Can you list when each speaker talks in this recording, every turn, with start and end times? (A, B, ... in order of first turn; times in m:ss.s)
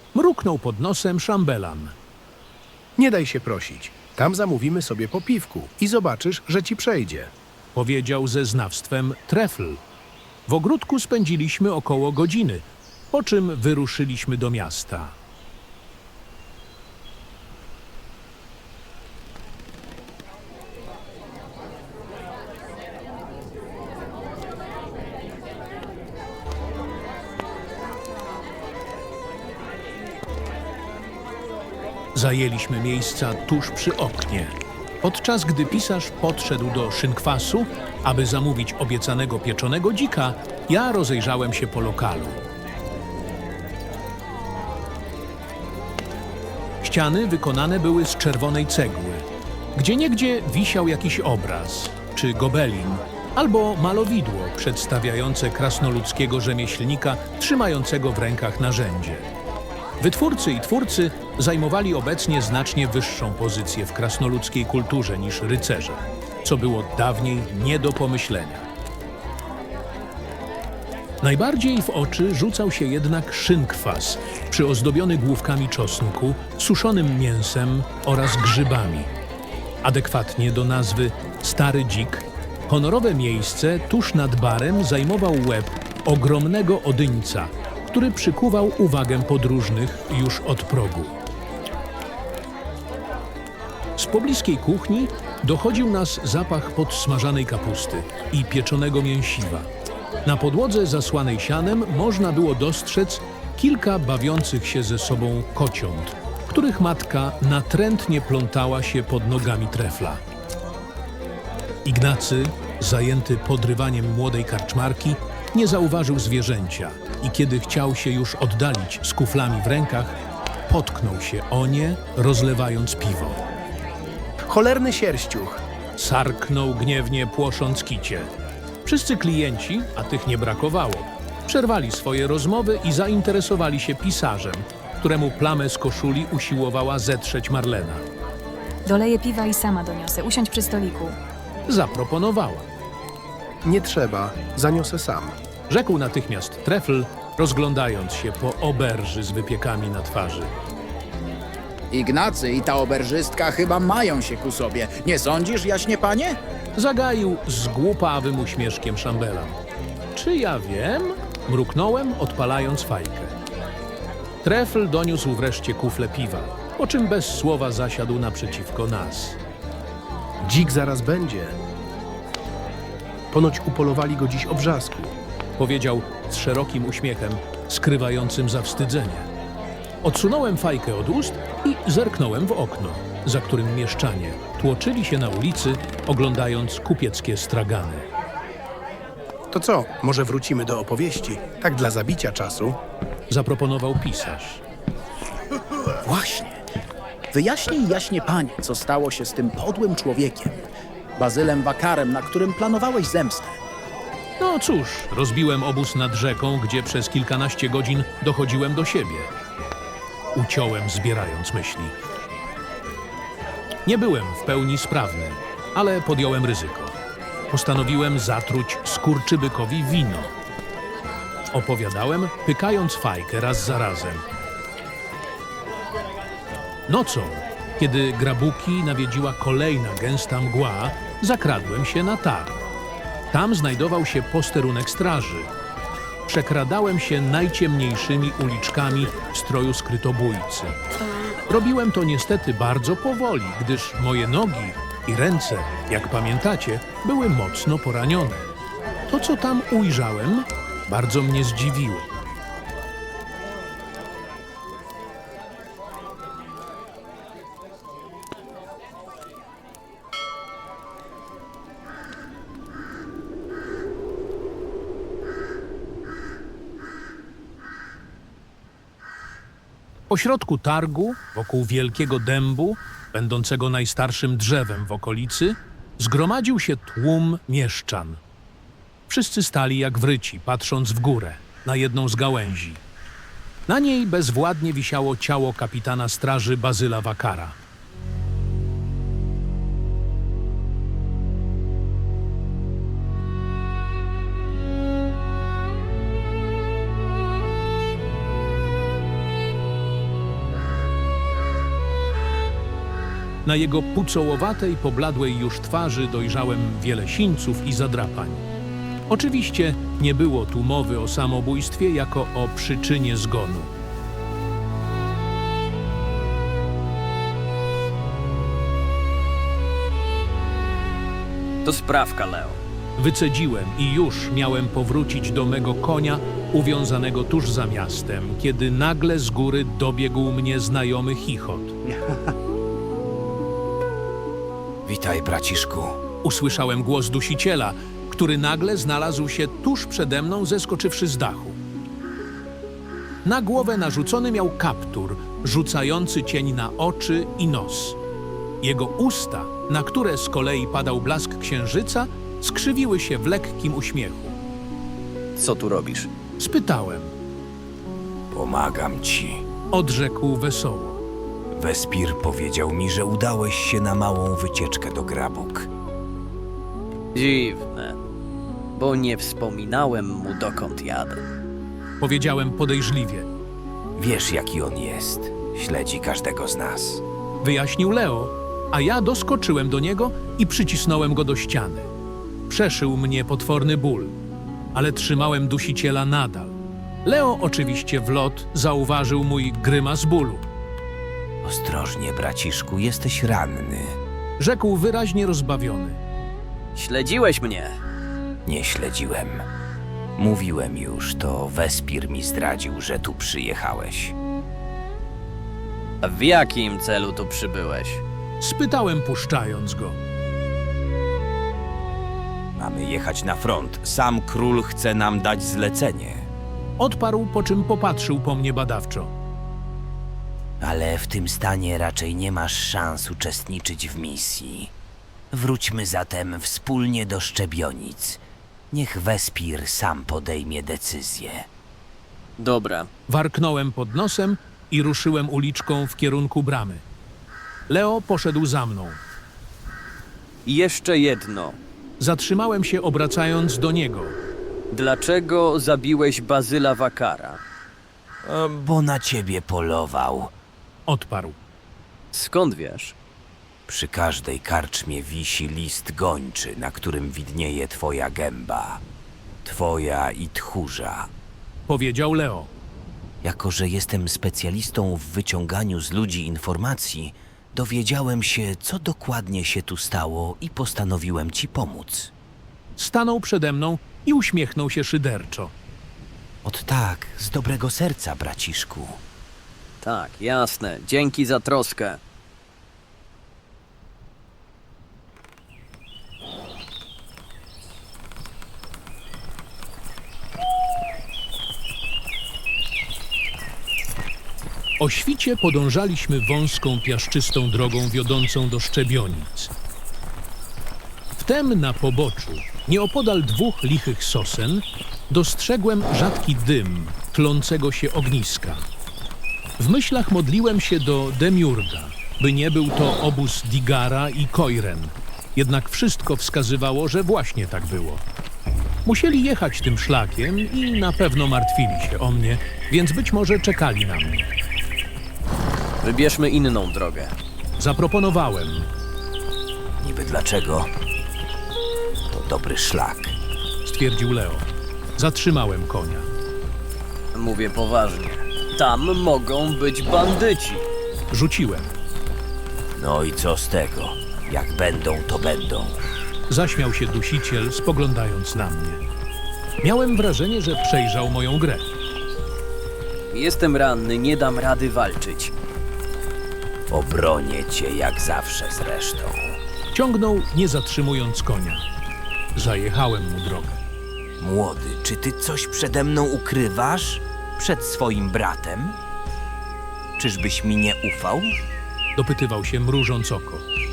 0:00.1-0:02.0 A
0:03.0-0:07.3 B
0:07.8-0:09.8 A
0:10.5-0:15.2 A
0:32.2-0:42.4 A
0:46.8-0:59.3 A
1:00.0-1:08.7 A
1:11.2-1:19.1 A
1:19.8-1:31.2 A
1:34.0-1:39.7 A
1:40.2-1:50.2 A
1:51.8-2:00.2 A
2:00.7-2:03.4 A
2:04.5-2:05.6 B
2:06.0-2:08.3 A
2:08.8-2:18.0 A
2:18.8-2:21.2 C
2:21.7-2:22.7 A
2:23.6-2:25.4 B
2:25.7-2:30.5 A
2:31.9-2:36.4 D
2:36.8-2:39.6 A
2:40.2-2:43.4 A
2:44.4-2:49.4 A
2:50.4-2:51.6 B
2:53.3-2:55.2 B
2:55.6-2:59.3 A
3:00.0-3:08.1 A
3:09.5-3:12.8 B
3:13.3-3:14.6 A
3:16.0-3:16.6 D
3:17.3-3:20.6 D
3:21.2-3:23.6 D
3:24.4-3:29.3 A
3:30.3-3:32.0 A
3:33.9-3:37.0 A
3:37.5-3:40.3 A
3:41.5-3:44.2 A
3:46.9-3:52.6 A
3:53.3-3:55.5 A
3:56.3-4:00.8 A
4:01.5-4:08.5 A
4:09.1-4:12.1 A
4:30.1-4:38.2 A
4:39.1-4:42.8 A
4:43.7-4:47.6 A
5:03.4-5:08.4 A
5:09.1-5:13.7 A
5:21.6-5:22.6 E
5:23.0-5:31.8 A
5:34.9-5:36.0 F
5:36.2-5:41.6 A
5:43.2-5:48.0 A
5:48.6-5:54.4 A
5:55.4-5:56.1 E
5:56.4-5:57.1 A
5:58.3-5:59.4 F
5:59.7-6:01.0 A
6:01.5-6:05.7 F
6:07.1-6:08.0 E
6:08.8-6:11.2 E
6:12.0-6:13.3 A
6:14.0-6:17.0 F
6:17.4-6:21.9 A
6:22.5-6:24.2 A
6:24.7-6:30.4 A
6:31.4-6:34.0 F
6:34.4-6:36.0 A
6:36.8-6:37.8 E
6:38.5-6:39.4 F
6:40.2-6:44.1 F
6:46.0-6:48.0 E
6:48.4-6:50.0 A
6:52.6-6:56.3 F
6:56.8-6:59.1 A
7:00.6-7:04.7 F
7:05.3-7:11.5 F
7:12.4-7:12.9 E
7:13.1-7:16.8 A
7:17.7-7:19.0 A
7:20.5-7:21.6 E
7:22.0-7:24.2 A
7:24.7-7:27.4 E
7:28.3-7:30.3 F
7:30.9-7:31.4 A
7:32.1-7:33.0 E
7:33.7-7:38.8 F
7:39.4-7:41.1 F
7:41.7-7:42.5 A
7:43.2-7:52.1 F
7:52.8-7:55.5 A
7:56.4-7:59.0 F
7:59.8-8:02.0 E
8:14.8-8:19.5 A
8:21.2-8:28.6 A
8:29.6-8:38.0 A
8:38.8-8:44.3 A
8:45.8-8:47.1 E
8:47.6-8:48.7 A
8:49.8-8:50.7 F
8:52.1-8:53.2 F
8:53.6-8:54.5 A
8:55.0-8:56.1 A
8:57.1-9:00.7 E
9:01.1-9:01.8 A
9:02.8-9:05.8 F
9:06.3-9:08.8 A
9:09.6-9:11.7 A
9:13.1-9:15.3 E
9:16.7-9:19.4 F
9:19.7-9:21.6 A
9:22.4-9:23.6 A
9:24.2-9:28.8 F
9:30.0-9:31.4 F
9:32.0-9:33.4 A